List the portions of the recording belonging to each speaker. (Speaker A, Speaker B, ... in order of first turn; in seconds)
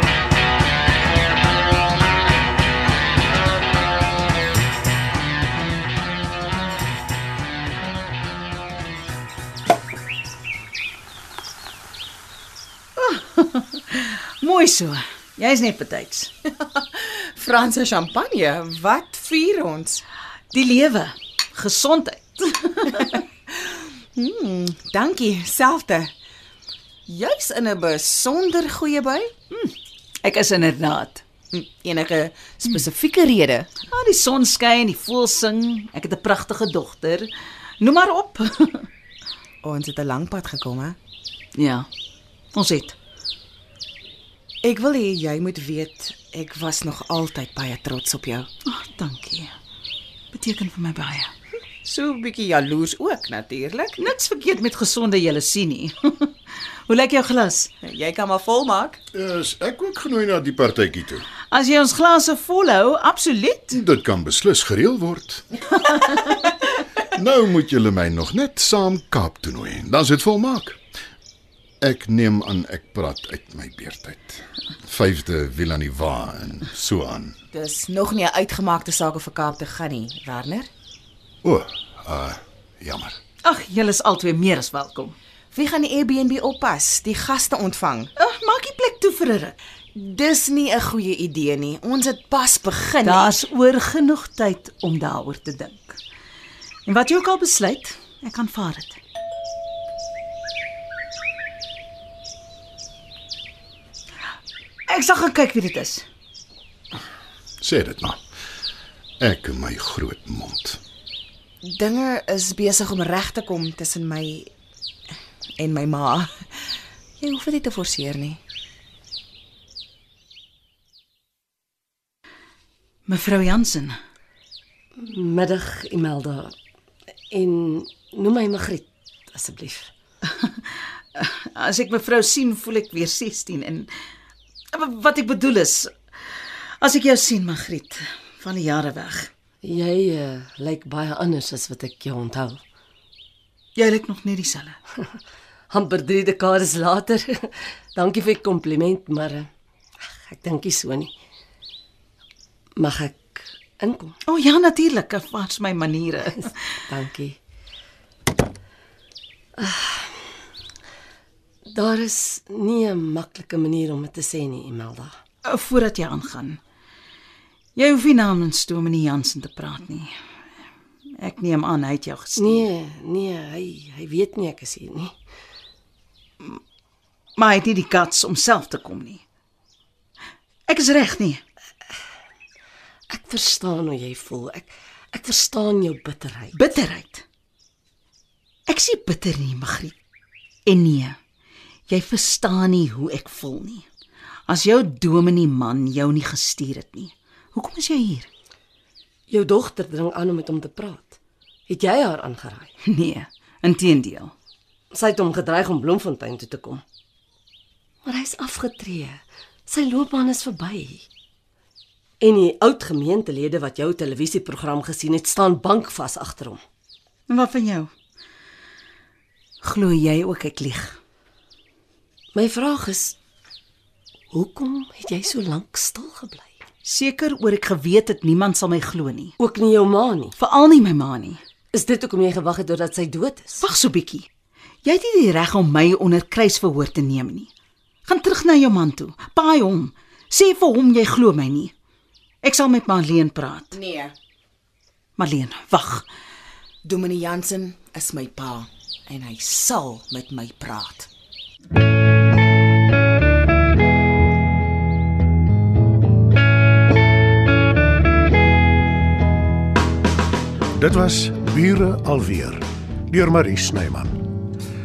Speaker A: 13.0-16.3, 20.5-23.2, 29.5-31.2, 33.9-38.9, 41.6-41.9, 42.5-43.0, 48.7-49.5, 50.3-51.3, 54.0-56.4, 56.9-57.7, 61.5-63.8, 83.4-85.2, 88.2-89.6, 93.0-96.0, 96.9-99.0, 104.9-106.0, 123.1-124.0, 130.3-133.9, 134.7-139.3, 143.8-144.8, 154.2-156.6, 165.4-166.6, 167.8-170.2, 171.2-172.7, 177.4-179.2, 180.7-181.4, 186.5-187.2, 188.7-190.0, 190.7-191.2, 191.9-193.9, 194.5-198.3, 202.9-204.3, 217.3-217.9, 219.6-221.0, 226.8-229.3, 230.4-231.4, 233.6-234.3, 234.8-237.5, 238.1-241.7, 242.4-243.8, 245.2-246.1
Speaker B: 16.9-20.0, 23.5-26.1, 27.1-29.3, 31.5-33.7, 39.6-41.0, 44.6-48.5, 51.8-54.0, 57.8-59.0, 77.5-80.7, 85.5-88.1, 90.0-93.4, 111.6-114.5, 115.6-118.4, 243.7-244.2, 246.8-251.1
Speaker C: 59.1-61.3, 63.7-66.2, 67.1-70.8, 71.8-77.4, 81.4-83.2, 107.6-108.2, 109.2-110.8
Speaker D: 125.0-126.5, 127.3-129.9, 139.6-142.6, 145.7-149.5, 150.3-151.1, 152.8-154.2, 156.5-157.4, 159.6-160.1, 161.7-165.1, 172.4-175.1, 183.1-186.7, 199.3-201.2, 201.7-202.7, 204.9-206.8, 208.1-211.1, 212.2-216.6, 222.3-223.2, 224.3-226.5, 229.4-230.3, 231.7-233.7
Speaker E: 260.7-264.3